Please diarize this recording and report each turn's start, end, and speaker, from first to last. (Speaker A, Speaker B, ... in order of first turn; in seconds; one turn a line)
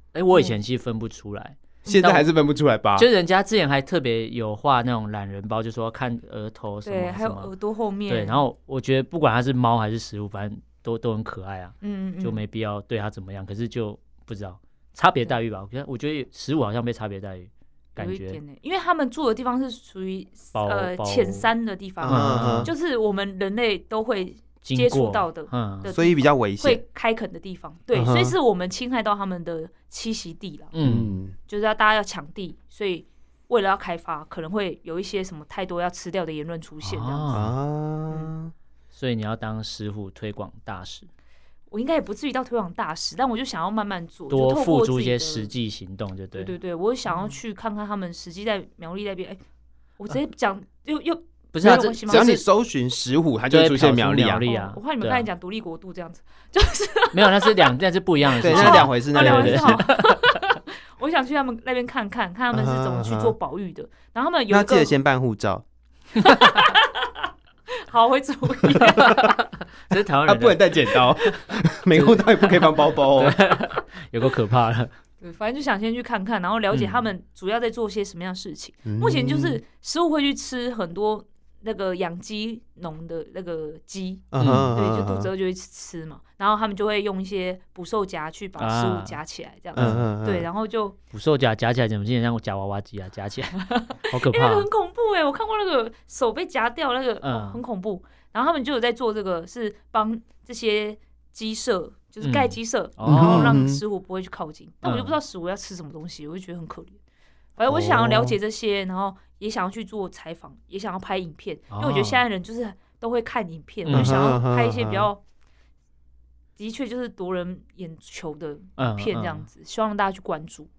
Speaker A: 0.1-2.3
Speaker B: 0.3-0.6
Speaker C: 1.9-3.1
Speaker A: 3.0-7.5
Speaker B: 6.8-8.4
Speaker A: 8.1-18.4
Speaker B: 11.8-12.4
Speaker B: 18.0-30.7
Speaker A: 20.6-21.5
Speaker C: 22.0-22.7
Speaker A: 22.1-22.7
Speaker A: 24.6-25.9
Speaker C: 25.9-26.8
Speaker C: 27.9-28.4
Speaker A: 30.7-31.2
Speaker C: 30.8-31.4
Speaker B: 31.5-37.4
Speaker A: 36.8-37.5
Speaker C: 37.3-38.5
Speaker A: 38.9-41.1
Speaker B: 41.7-45.5
Speaker A: 44.3-46.5
Speaker B: 46.4-49.4
Speaker B: 50.0-52.4
Speaker A: 51.5-52.3
Speaker C: 51.6-54.5
Speaker A: 53.5-55.3
Speaker B: 54.5-57.5
Speaker A: 57.1-60.4
Speaker B: 58.3-64.9
Speaker C: 58.4-59.9
Speaker C: 62.5-63.4
Speaker C: 64.5-65.7
Speaker B: 66.2-67.1
Speaker B: 67.9-69.4
Speaker A: 69.0-71.3
Speaker C: 70.2-73.4
Speaker A: 71.9-74.9
Speaker B: 75.2-91.0
Speaker A: 76.7-77.0
Speaker C: 78.9-79.6
Speaker C: 84.3-85.3
Speaker A: 84.4-84.7
Speaker A: 88.6-89.2
Speaker A: 89.8-90.1
Speaker C: 89.8-90.5
Speaker A: 91.1-94.7
Speaker B: 93.6-107.0
Speaker A: 97.2-97.6
Speaker A: 102.2-103.6
Speaker C: 103.0-103.8
Speaker A: 104.8-105.2
Speaker B: 107.6-115.2
Speaker C: 107.7-108.4
Speaker A: 111.7-112.2
Speaker A: 113.8-114.2
Speaker C: 113.9-115.1
Speaker B: 116.6-120.7
Speaker A: 118.8-119.5